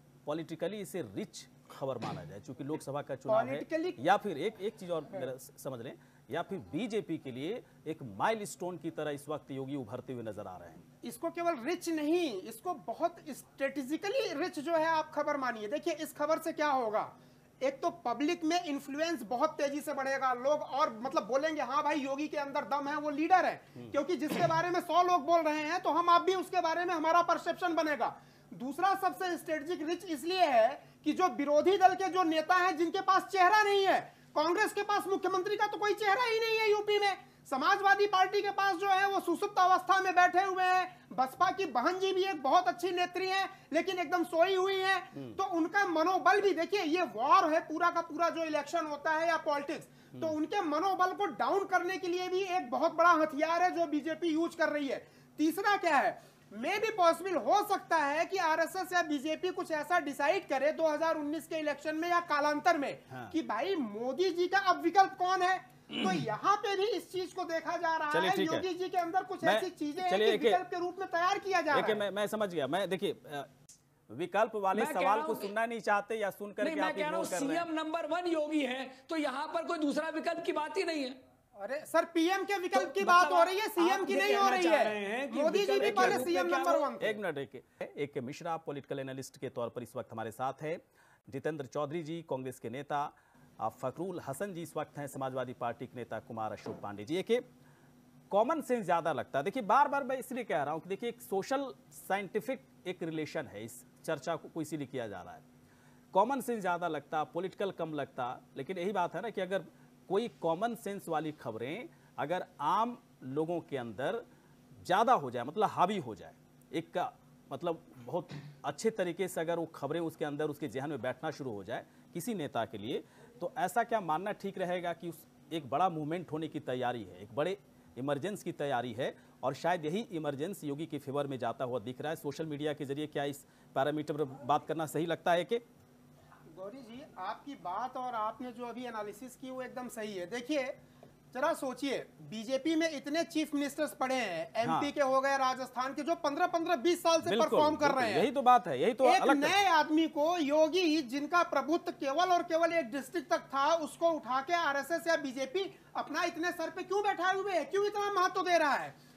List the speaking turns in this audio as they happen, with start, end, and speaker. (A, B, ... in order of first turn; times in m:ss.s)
0:00.2-0:10.8 A
0:03.3-0:04.0 B
0:11.0-1:12.0 B
1:08.1-1:08.6 A
1:09.4-1:10.6 A
1:11.7-1:13.5 A
1:14.1-1:17.6 A
1:14.8-1:15.5 C
1:16.6-1:21.2 C
1:21.6-1:27.2 B
1:22.7-1:26.9 C
1:25.8-1:26.3 A
1:27.0-1:37.4 A
1:38.3-1:45.4 A
1:46.1-1:54.2 A
1:54.8-2:15.6 A
2:16.6-2:20.8 B
2:21.3-2:28.3 B
2:24.6-2:24.9 A
2:27.2-2:29.6 A
2:29.0-2:39.0 B